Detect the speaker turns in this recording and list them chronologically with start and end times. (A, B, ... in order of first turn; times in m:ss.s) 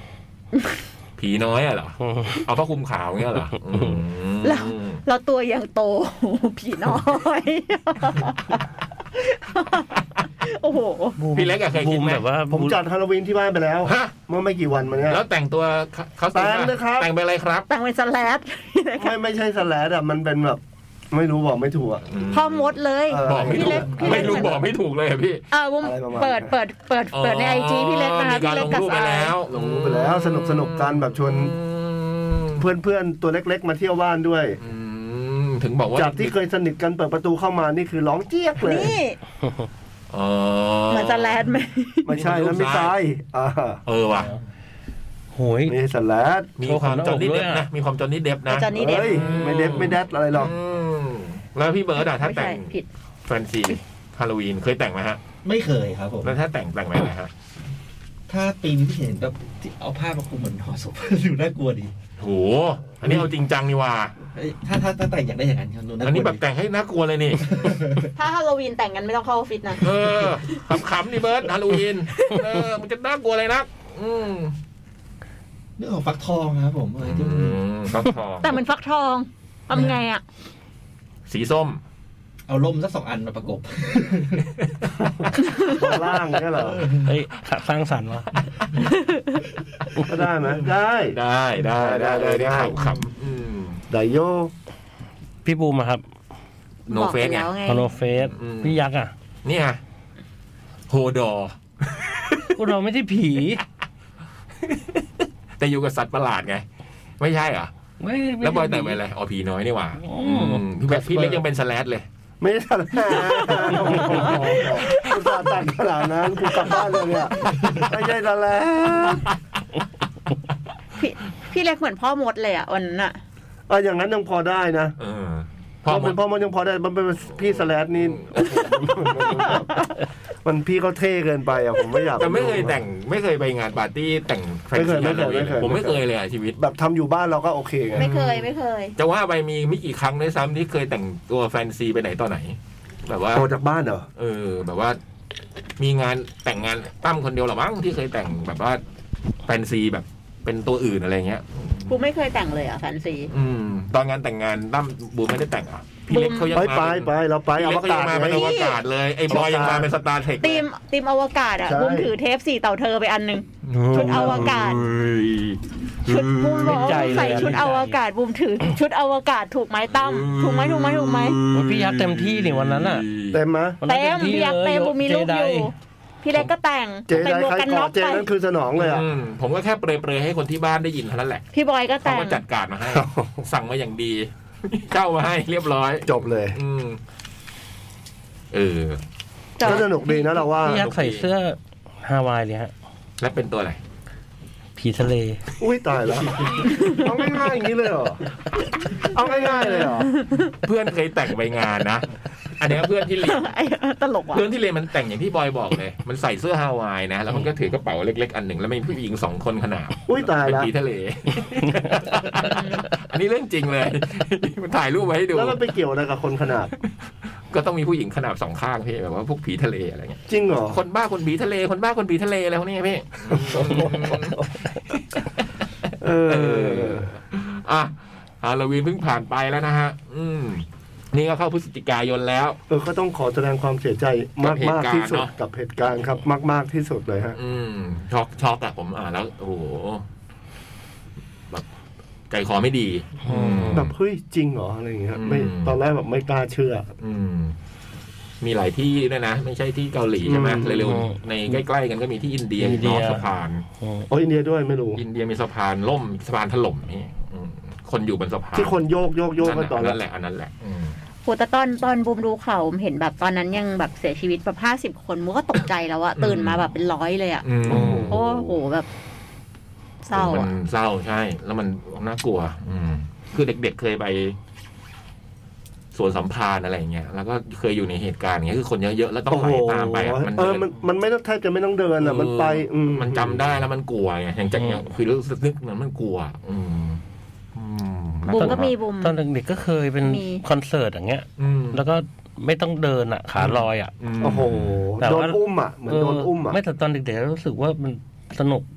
0:01.2-0:05.0 A
0:02.0-0:02.4 B
0:04.4-0:11.2 C
0:11.2-0:12.8 B
0:11.3-0:12.2 A
0:12.5-0:15.2 D
0:13.8-0:14.1 A
0:15.0-0:17.7 A
0:16.3-0:17.1 D
0:17.7-0:19.2 C
0:19.0-0:22.1 D
0:22.1-0:25.4 A
0:22.3-0:24.6 C
0:23.1-0:24.7 D
0:25.5-0:29.3 C
0:25.8-0:26.5 D
0:27.1-0:32.6 A
0:29.5-0:31.5 D
0:32.6-0:34.6 D
0:34.6-0:36.3 A
0:35.9-0:39.0 D
0:38.6-0:39.2 C
0:40.1-0:41.4 A
0:40.9-0:42.1 C
0:42.0-0:43.8 D
0:42.1-0:42.9 A
0:43.8-0:44.3 A
0:45.3-0:45.8 B
0:45.6-0:46.5 D
0:46.6-0:52.7 A
0:46.6-0:47.7 B
0:48.5-0:49.3 C
0:48.7-0:50.5 D
0:52.0-0:52.9 C
0:53.2-0:55.2 A
0:55.4-0:56.3 E
0:56.2-0:57.3 A
0:58.3-1:01.9 E
1:02.2-1:04.1 A
1:04.3-1:06.4 E
1:06.0-1:07.9 A
1:07.4-1:08.1 E
1:08.1-1:09.9 C
1:09.8-1:14.5 A
1:15.8-1:17.6 E
1:17.0-1:18.5 A
1:18.4-1:20.2 C
1:21.3-1:21.8 A
1:22.5-1:24.5 E
1:25.0-1:26.9 D
1:25.4-1:25.8 C
1:26.5-1:27.1 E
1:27.0-1:28.4 B
1:28.8-1:29.4 C
1:30.0-1:31.2 D
1:31.1-1:33.8 A
1:31.7-1:32.9 D
1:33.9-1:34.5 D
1:35.4-1:36.0 B
1:36.9-1:37.9 C
1:36.9-1:37.5 A
1:37.6-1:39.1 B
1:38.3-1:38.8 A
1:39.4-1:39.8 A
1:40.9-1:42.5 A
1:42.5-1:43.6 B
1:44.6-1:45.0 A
1:45.6-1:46.6 A
1:47.2-1:47.7 A
1:48.0-1:49.0 B
1:48.4-1:52.0 A
1:50.0-1:50.6 B
1:51.1-1:51.4 D
1:52.4-1:59.3 D
1:53.1-1:55.4 C
2:01.0-2:03.2 C
2:03.7-2:05.0 D
2:05.0-2:06.2 A
2:05.8-2:09.8 D
2:07.3-2:09.6 A
2:10.4-2:12.8 D
2:12.1-2:16.6 A
2:14.7-2:16.0 D
2:16.6-2:18.1 D
2:17.9-2:23.5 A
2:17.9-2:18.9 C
2:23.3-2:24.0 D
2:24.2-2:25.0 A
2:25.8-2:28.8 A
2:29.4-2:32.0 A
2:31.9-2:33.3 C
2:33.3-2:40.6 A
2:36.1-2:36.6 C
2:36.5-2:38.5 D
2:38.3-2:38.8 C
2:39.3-2:39.9 D
2:40.4-2:44.8 C
2:41.7-2:42.1 D
2:43.7-2:44.8 B
2:43.9-2:47.6 A
2:46.0-2:51.4 C
2:46.6-2:47.9 B
2:49.9-2:53.4 A
2:51.5-2:53.1 B
2:53.3-2:53.8 D
2:53.8-2:55.7 B
2:53.8-2:58.3 C
2:57.1-2:59.1 D
2:58.7-3:01.5 A
3:01.5-3:02.4 C
3:02.0-3:07.0 A
3:02.8-3:03.4 D
3:06.0-3:06.6 D
3:08.5-3:09.0 A
3:09.6-3:10.2 C
3:09.6-3:10.8 D
3:10.5-3:12.7 B
3:10.6-3:11.3 A
3:13.2-3:13.8 A
3:14.8-3:15.4 B
3:15.6-3:18.2 D
3:16.7-3:17.0 C
3:19.0-3:20.1 D
3:19.4-3:20.4 C
3:20.5-3:23.5 A
3:23.2-3:24.4 C
3:24.3-3:35.6 A
3:30.1-3:30.7 D
3:31.7-3:32.1 B
3:32.4-3:32.9 C
3:35.3-3:36.7 D
3:37.5-3:45.2 A
3:40.3-3:40.8 D
3:43.3-3:44.4 D
3:46.0-3:47.1 D
3:46.3-3:52.6 A
3:52.7-3:57.4 D
3:54.4-3:55.3 A
3:57.3-4:00.0 A
4:02.3-4:03.9 A
4:03.3-4:06.9 D
4:05.1-4:05.8 A
4:07.0-4:07.5 A
4:08.4-4:13.6 A
4:10.2-4:10.9 D
4:10.7-4:11.2 B
4:12.6-4:13.2 B
4:13.8-4:14.0 B
4:14.1-4:15.0 D
4:15.0-4:18.8 A
4:18.5-4:20.0 D
4:19.4-4:21.0 A
4:21.2-4:28.9 C
4:26.2-4:26.6 A
4:27.4-4:28.5 A
4:27.6-4:28.2 D
4:30.0-4:30.5 C
4:30.1-4:34.4 A
4:35.9-4:40.7 A
4:39.3-4:43.5 D
4:42.0-4:47.0 A
4:44.6-4:44.8 B
4:47.5-4:48.7 A
4:48.3-4:49.2 C
4:48.3-4:53.9 B
4:50.0-4:50.4 C
4:51.4-4:51.8 A
4:53.4-4:54.8 A
4:54.2-4:56.6 D
4:55.0-4:58.7 B